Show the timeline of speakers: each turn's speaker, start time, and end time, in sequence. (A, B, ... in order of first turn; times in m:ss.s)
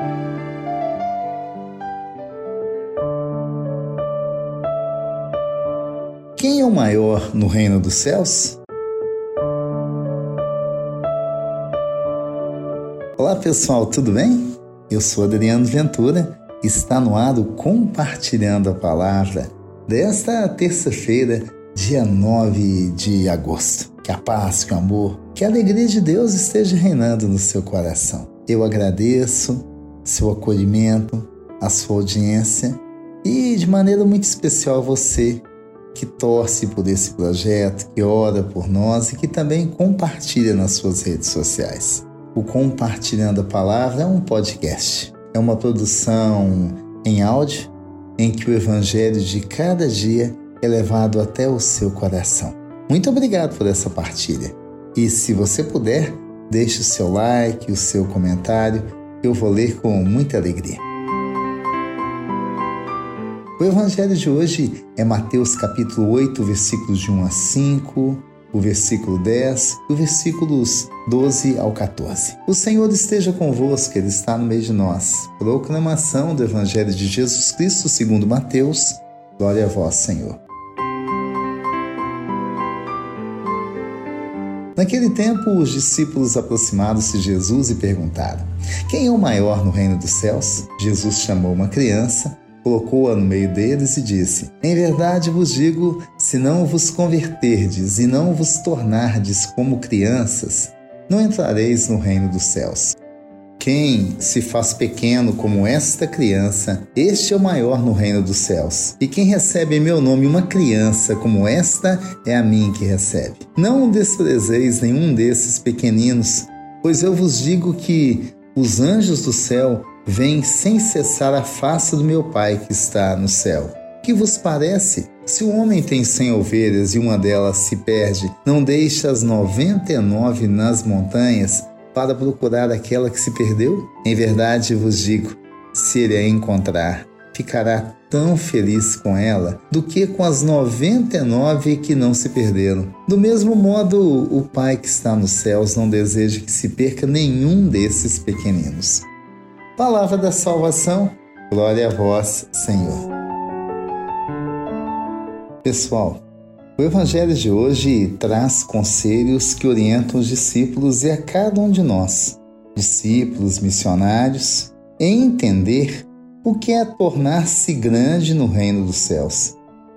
0:06.4-0:08.6 A
0:13.2-1:00.8 A
1:03.6-1:20.4 A
1:24.8-1:43.0 A
1:43.6-2:29.1 A
2:29.8-2:33.1 A
2:35.6-2:36.2 A
2:36.8-2:49.6 A